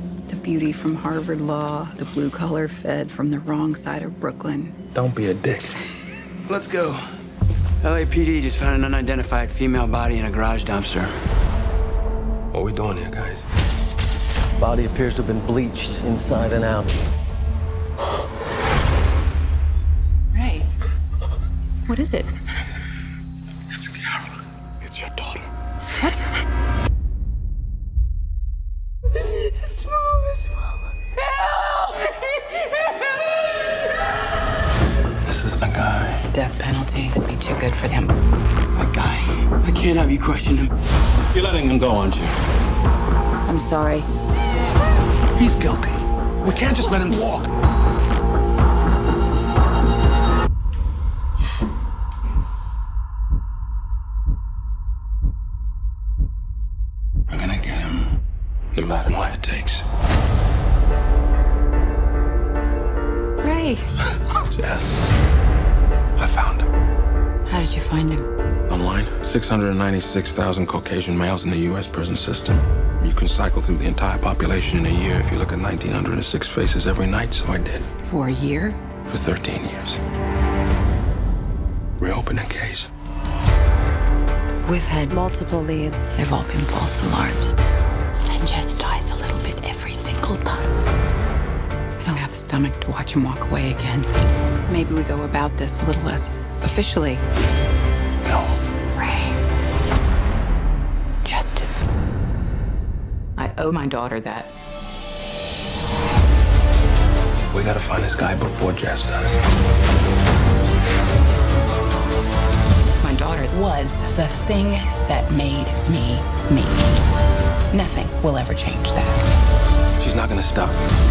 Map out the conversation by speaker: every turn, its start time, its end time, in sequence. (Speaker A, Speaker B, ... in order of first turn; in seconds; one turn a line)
Speaker A: 0.3-4.8
Speaker B: 4.9-5.8
Speaker C: 6.5-7.1
Speaker C: 7.8-11.2
Speaker B: 12.5-13.4
Speaker D: 14.6-17.0
Speaker A: 20.3-20.7
Speaker A: 21.9-22.3
Speaker B: 24.9-25.2
Speaker A: 26.0-26.2
Speaker A: 31.2-32.5
Speaker B: 35.2-36.3
Speaker A: 36.3-38.1
Speaker C: 38.7-40.7
Speaker B: 41.3-42.2
Speaker C: 41.7-42.2
Speaker A: 43.5-44.1
Speaker B: 45.4-47.5
Speaker B: 57.3-57.8
Speaker B: 58.7-59.8
Speaker A: 63.4-63.9
Speaker B: 64.5-65.0
Speaker B: 66.2-66.7
Speaker A: 67.5-68.3
Speaker B: 68.7-77.8
Speaker A: 78.0-78.8
Speaker B: 79.1-80.0
Speaker B: 82.0-82.9
Speaker A: 84.6-87.5
Speaker A: 88.2-90.7
Speaker A: 92.0-94.1
Speaker A: 94.7-97.2
Speaker B: 98.2-98.6
Speaker A: 98.9-99.4
Speaker A: 101.2-101.8
Speaker A: 103.3-104.5
Speaker B: 107.5-109.4
Speaker A: 113.0-116.9
Speaker A: 117.7-119.2
Speaker B: 120.0-120.8